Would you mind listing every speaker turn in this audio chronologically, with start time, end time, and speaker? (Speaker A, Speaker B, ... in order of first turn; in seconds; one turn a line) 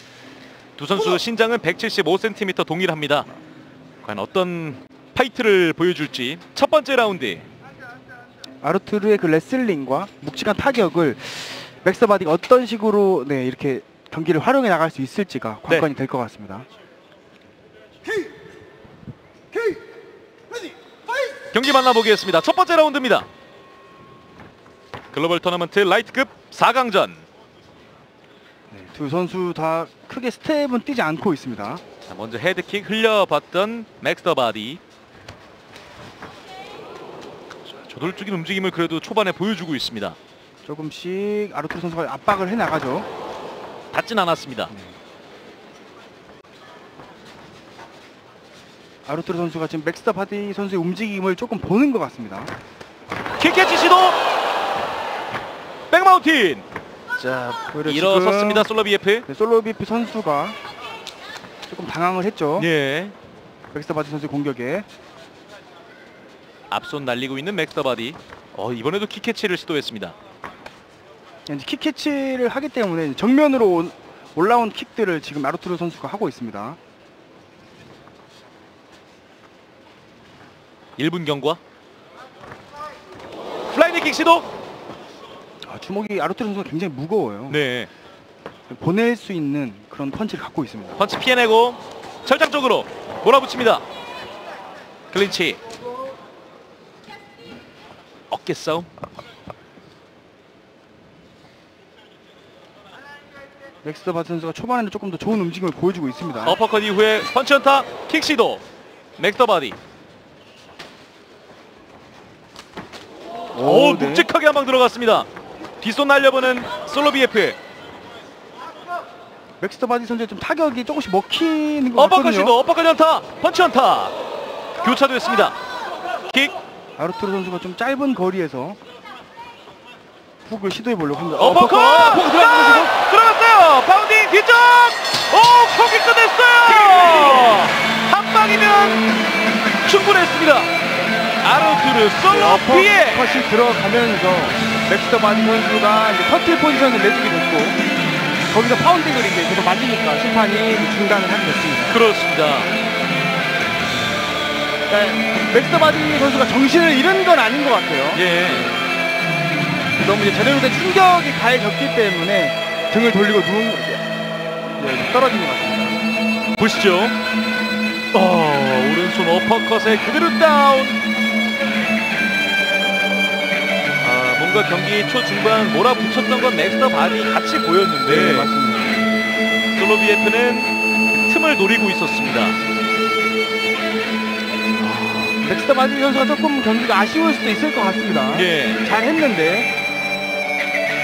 Speaker A: 0.8-3.3
Speaker A: 4.0-7.5
Speaker B: 8.6-16.7
Speaker A: 21.5-23.3
Speaker A: 25.1-27.3
Speaker B: 28.7-31.8
Speaker A: 32.1-34.8
Speaker A: 37.8-40.2
Speaker B: 40.6-43.1
Speaker A: 43.9-44.7
Speaker B: 44.7-45.0
Speaker B: 49.0-52.5
Speaker A: 53.4-54.2
Speaker A: 55.9-56.6
Speaker A: 57.2-59.2
Speaker B: 57.7-58.7
Speaker B: 59.2-60.6
Speaker B: 61.7-62.7
Speaker A: 62.6-63.1
Speaker B: 63.7-64.9
Speaker A: 66.7-70.1
Speaker B: 71.5-76.8
Speaker A: 81.0-81.6
Speaker A: 83.7-84.5
Speaker B: 85.6-87.6
Speaker A: 87.5-87.9
Speaker B: 88.7-91.0
Speaker A: 91.0-93.8
Speaker A: 95.1-95.6
Speaker A: 98.3-98.9
Speaker B: 103.8-106.6
Speaker A: 106.4-108.6
Speaker A: 109.2-109.8
Speaker B: 113.5-114.3
Speaker A: 113.5-115.3
Speaker A: 115.8-117.6
Speaker B: 119.6-122.5
Speaker A: 122.0-124.1
Speaker A: 124.8-125.5
Speaker A: 126.3-126.5
Speaker B: 127.0-128.8
Speaker B: 130.4-132.9
Speaker A: 131.4-139.0
Speaker A: 139.8-140.7
Speaker A: 141.4-143.3
Speaker B: 142.2-147.8
Speaker B: 148.5-152.0
Speaker A: 151.9-152.7
Speaker B: 154.9-158.8
Speaker A: 158.1-158.7
Speaker B: 160.0-164.0
Speaker B: 164.8-166.0
Speaker A: 166.6-167.1
Speaker A: 168.1-171.0
Speaker A: 174.0-178.5
Speaker B: 178.0-179.0
Speaker A: 179.7-182.6
Speaker B: 184.8-189.7
Speaker A: 188.3-188.8